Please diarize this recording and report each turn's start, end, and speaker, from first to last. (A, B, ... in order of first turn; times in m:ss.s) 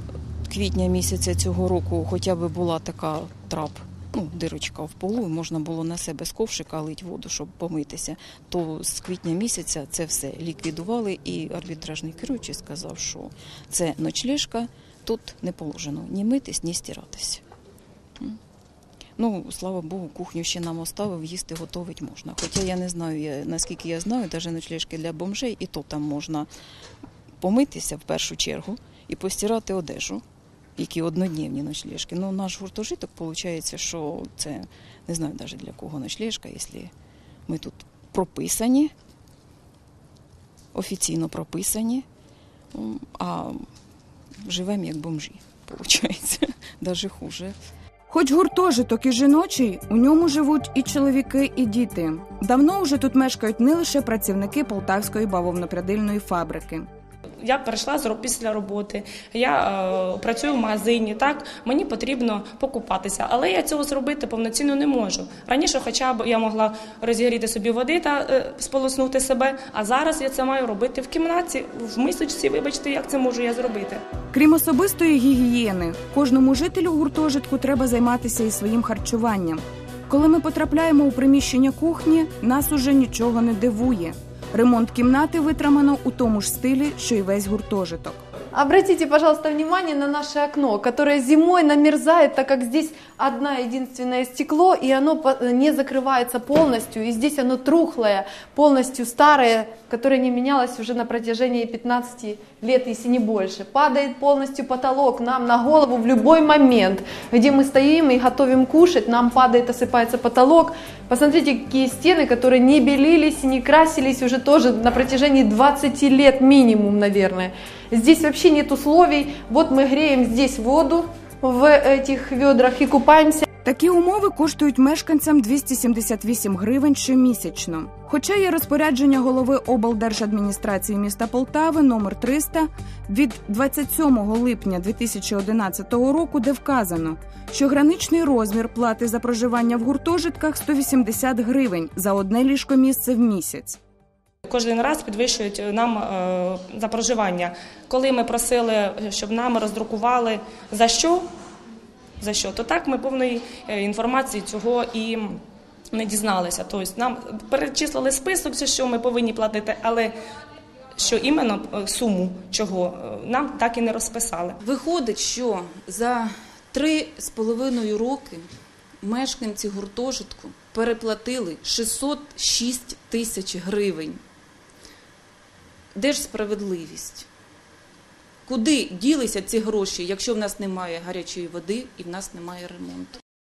0:00.5-0:17.4 A
0:19.2-0:26.5 A
0:27.4-0:30.2 A
0:30.8-0:36.9 A
0:37.5-0:38.9 A
0:40.7-0:42.1 A
0:42.7-0:43.6 A
0:44.4-0:47.6 A
0:48.1-0:56.9 B
0:57.4-1:14.0 C
1:14.3-1:28.2 B
1:28.5-2:03.5 D
2:03.6-2:23.8 B
2:24.4-2:31.3 C
2:32.2-2:35.4 C
2:35.9-2:40.1 C
2:41.0-2:44.6 C
2:44.6-2:48.5 E
2:49.0-2:54.2 E
2:56.0-2:57.3 E
2:58.5-3:03.2 E